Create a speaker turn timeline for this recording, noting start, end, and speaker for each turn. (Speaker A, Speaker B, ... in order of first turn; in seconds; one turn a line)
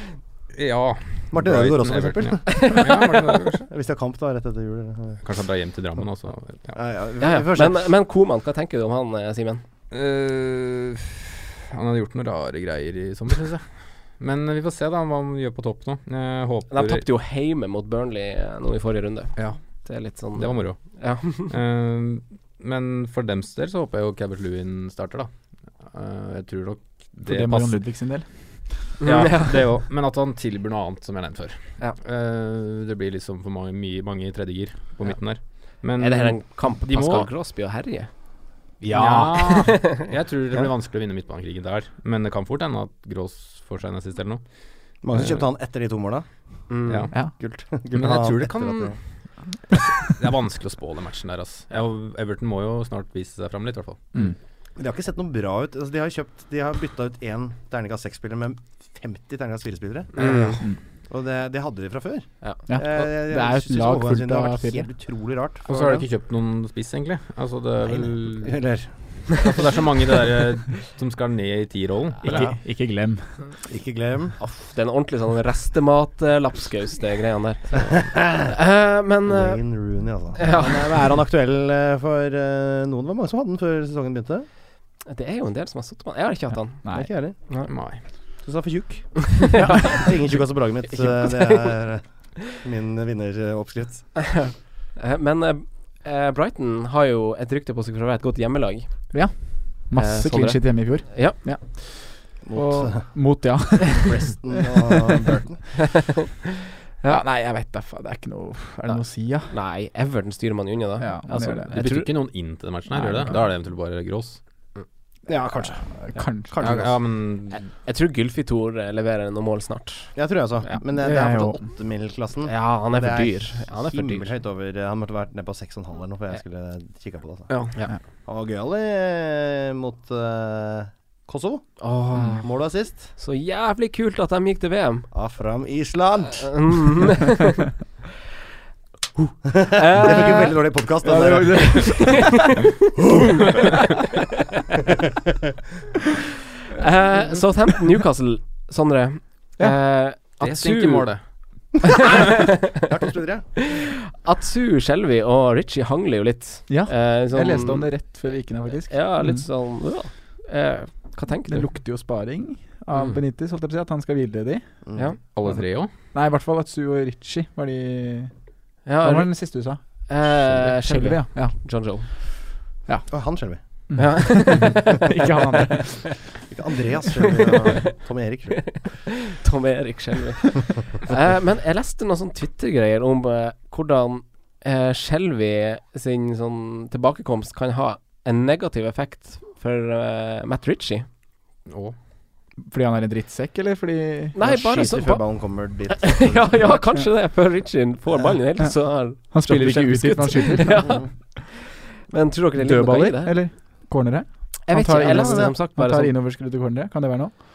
Speaker A: 0.5-3.6
Speaker B: 1.3-2.9
Speaker C: 2.5-2.8
Speaker B: 3.7-5.2
Speaker A: 5.2-6.8
Speaker B: 6.7-7.9
Speaker C: 7.2-9.6
Speaker A: 9.9-17.1
Speaker C: 16.7-21.5
Speaker A: 19.4-27.8
Speaker D: 27.2-28.9
Speaker C: 29.0-29.6
Speaker A: 29.0-37.3
Speaker C: 36.0-40.1
Speaker A: 38.8-45.4
Speaker B: 45.0-46.2
Speaker C: 46.7-47.1
Speaker A: 46.9-47.1
Speaker B: 47.0-49.0
Speaker A: 47.6-49.0
Speaker A: 49.7-54.0
Speaker B: 54.8-66.0
Speaker C: 60.1-60.6
Speaker D: 62.7-64.9
Speaker A: 65.7-68.6
Speaker B: 67.8-68.9
Speaker A: 69.3-72.5
Speaker D: 72.2-73.5
Speaker B: 72.3-72.5
Speaker B: 73.6-74.4
Speaker C: 74.4-79.7
Speaker B: 78.1-78.5
Speaker B: 79.2-84.5
Speaker C: 80.3-81.0
Speaker C: 85.0-87.0
Speaker D: 86.8-87.1
Speaker B: 86.9-87.4
Speaker A: 87.7-88.0
Speaker B: 88.4-94.1
Speaker C: 89.5-90.0
Speaker D: 89.6-90.0
Speaker C: 91.0-91.5
Speaker C: 94.2-101.4
Speaker D: 99.1-104.4
Speaker B: 102.4-103.2
Speaker B: 103.8-105.6
Speaker D: 107.0-109.5
Speaker C: 108.9-112.1
Speaker D: 111.0-112.0
Speaker A: 111.3-114.4
Speaker D: 112.9-113.5
Speaker B: 115.3-116.9
Speaker D: 115.9-116.8
Speaker A: 116.6-117.6
Speaker C: 117.8-120.2
Speaker B: 120.1-127.7
Speaker D: 120.9-121.6
Speaker C: 122.5-124.3
Speaker A: 127.5-127.7
Speaker B: 128.2-131.9
Speaker C: 131.8-132.5
Speaker B: 132.4-133.1
Speaker C: 133.0-135.1
Speaker B: 135.1-136.8
Speaker C: 136.4-137.5
Speaker B: 139.4-142.2
Speaker C: 139.7-140.5
Speaker D: 141.0-142.3
Speaker C: 141.8-142.4
Speaker C: 146.8-151.1
Speaker A: 150.4-152.0
Speaker C: 152.0-152.3
Speaker B: 152.8-153.4
Speaker C: 153.6-158.0
Speaker D: 156.7-159.4
Speaker C: 158.9-161.7
Speaker D: 161.5-164.7
Speaker B: 164.8-165.1
Speaker A: 165.3-165.9
Speaker D: 166.1-168.3
Speaker C: 168.8-172.1
Speaker D: 169.0-172.3
Speaker D: 172.9-176.2
Speaker B: 173.1-174.2
Speaker C: 174.0-175.1
Speaker B: 176.5-178.7
Speaker C: 178.7-191.1
Speaker A: 191.7-191.9
Speaker D: 192.7-194.4
Speaker C: 194.3-203.4
Speaker B: 194.4-196.9
Speaker D: 199.3-201.1
Speaker D: 202.6-207.3
Speaker C: 204.7-206.1
Speaker B: 205.0-205.5